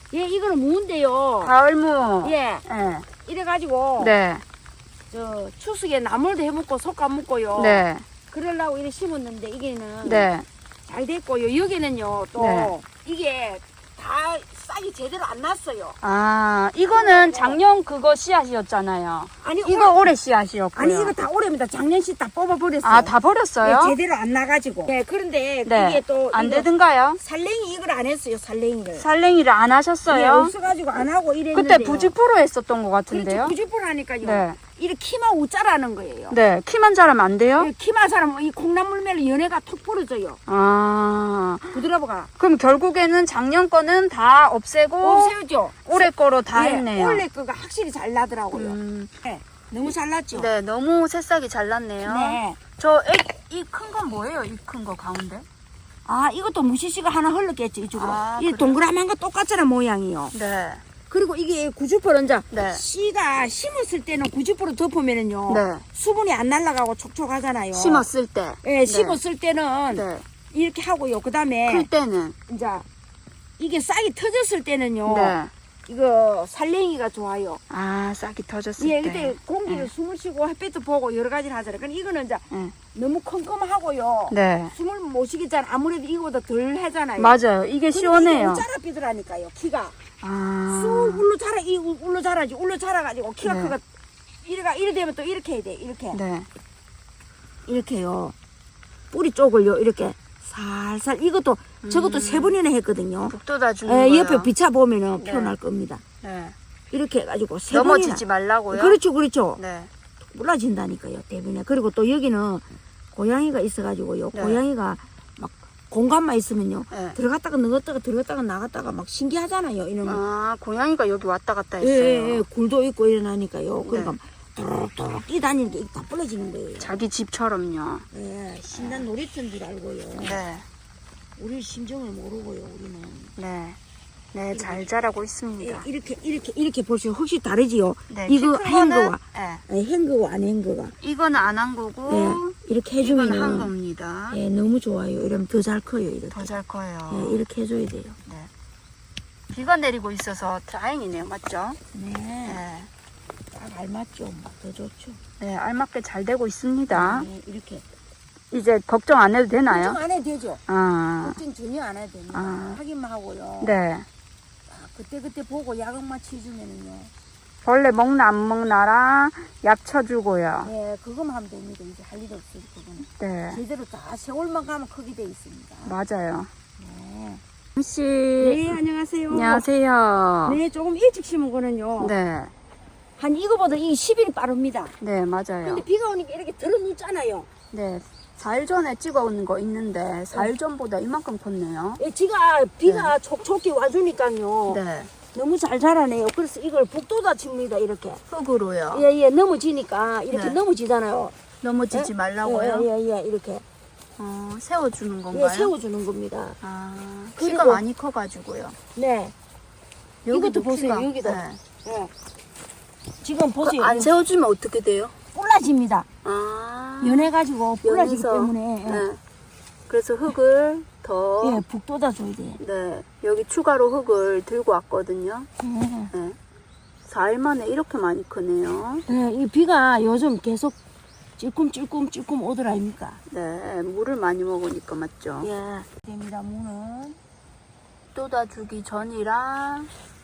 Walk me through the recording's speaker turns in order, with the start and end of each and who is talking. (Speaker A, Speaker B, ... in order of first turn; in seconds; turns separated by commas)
Speaker A: 0.1-1.5, Speaker B: 1.4-3.1, Speaker A: 2.2-2.6, Speaker A: 3.2-4.2, Speaker B: 4.0-4.4, Speaker A: 5.1-10.3, Speaker B: 7.5-8.0, Speaker B: 10.0-10.4, Speaker A: 10.9-16.0, Speaker B: 12.4-12.7, Speaker B: 16.0-21.2, Speaker A: 16.9-17.6, Speaker A: 19.4-20.1, Speaker A: 20.7-29.1, Speaker B: 22.8-24.0, Speaker B: 25.6-27.2, Speaker B: 28.9-30.5, Speaker A: 30.1-32.1, Speaker B: 31.5-33.5, Speaker A: 33.1-36.4, Speaker B: 34.2-34.6, Speaker B: 36.3-37.7, Speaker A: 37.6-40.4, Speaker B: 40.5-41.8, Speaker A: 41.7-42.3, Speaker B: 42.4-45.3, Speaker A: 45.0-50.5, Speaker B: 45.9-47.2, Speaker B: 48.5-49.1, Speaker B: 50.3-55.5, Speaker A: 52.0-52.6, Speaker A: 56.0-60.3, Speaker B: 58.0-58.8, Speaker B: 60.3-60.8, Speaker A: 61.1-68.1, Speaker B: 62.5-62.8, Speaker B: 65.5-65.8, Speaker B: 67.7-69.2, Speaker A: 68.6-71.9, Speaker B: 69.9-70.2, Speaker B: 71.7-72.3, Speaker A: 72.5-72.8, Speaker A: 73.6-77.6, Speaker B: 75.0-75.5, Speaker B: 77.7-79.9, Speaker A: 78.8-90.0, Speaker B: 84.3-84.7, Speaker B: 87.2-88.7, Speaker B: 90.2-91.3, Speaker A: 90.7-93.8, Speaker B: 93.4-93.7, Speaker A: 94.4-96.2, Speaker B: 96.1-96.5, Speaker A: 97.7-98.3, Speaker A: 99.1-103.3, Speaker B: 101.8-102.5, Speaker B: 103.2-104.5, Speaker A: 103.8-106.0, Speaker B: 105.2-105.5, Speaker B: 106.2-106.5, Speaker A: 106.9-109.6, Speaker B: 107.7-109.0, Speaker B: 109.6-109.9, Speaker A: 110.3-120.2, Speaker B: 114.3-114.6, Speaker B: 116.9-117.2, Speaker B: 120.0-122.5, Speaker A: 121.8-127.0, Speaker B: 123.8-124.2, Speaker B: 126.8-128.0, Speaker A: 128.1-130.4, Speaker B: 128.7-129.0, Speaker B: 130.2-130.7, Speaker A: 131.4-133.3, Speaker B: 133.3-133.8, Speaker B: 134.3-135.9, Speaker A: 134.5-134.9, Speaker A: 135.6-140.9, Speaker B: 138.1-139.6, Speaker B: 141.0-144.4, Speaker A: 142.1-143.7, Speaker A: 144.3-146.5, Speaker B: 146.3-147.4, Speaker A: 147.1-148.2, Speaker B: 149.5-151.8, Speaker A: 151.9-152.6, Speaker B: 152.4-152.9, Speaker A: 153.5-155.2, Speaker B: 155.4-157.3, Speaker A: 156.9-157.8, Speaker B: 158.5-160.0, Speaker A: 159.7-160.6, Speaker B: 160.7-161.4, Speaker A: 161.2-163.8, Speaker B: 162.3-162.8, Speaker B: 163.6-164.1, Speaker A: 164.7-167.1, Speaker B: 167.6-170.7, Speaker A: 170.6-176.0, Speaker B: 173.2-173.6, Speaker B: 175.8-176.5, Speaker A: 176.8-177.4, Speaker B: 177.8-178.7, Speaker A: 178.4-179.6, Speaker B: 179.3-180.6, Speaker A: 180.4-182.1, Speaker B: 182.0-182.5, Speaker A: 183.2-184.9, Speaker B: 185.0-185.8, Speaker A: 185.6-187.5, Speaker B: 187.7-192.0, Speaker A: 192.0-198.2, Speaker B: 192.8-193.1, Speaker B: 194.7-195.1, Speaker B: 198.3-199.1, Speaker A: 198.9-201.3, Speaker B: 200.3-200.6, Speaker B: 201.6-202.9, Speaker A: 201.9-203.6, Speaker B: 204.2-205.7, Speaker A: 205.3-206.6, Speaker B: 206.6-208.8, Speaker A: 207.4-207.8, Speaker A: 208.9-209.3, Speaker B: 210.2-211.6, Speaker A: 210.3-212.1, Speaker A: 213.2-214.1, Speaker B: 213.6-215.1, Speaker A: 215.3-216.1, Speaker B: 216.2-219.2, Speaker A: 217.0-219.1, Speaker B: 219.9-221.6, Speaker A: 221.4-222.6, Speaker B: 222.6-225.5, Speaker A: 225.6-226.1, Speaker B: 226.1-226.4, Speaker B: 227.0-229.0, Speaker A: 229.1-230.8, Speaker A: 231.4-233.2, Speaker B: 233.3-235.5, Speaker A: 235.4-237.2, Speaker B: 238.1-239.9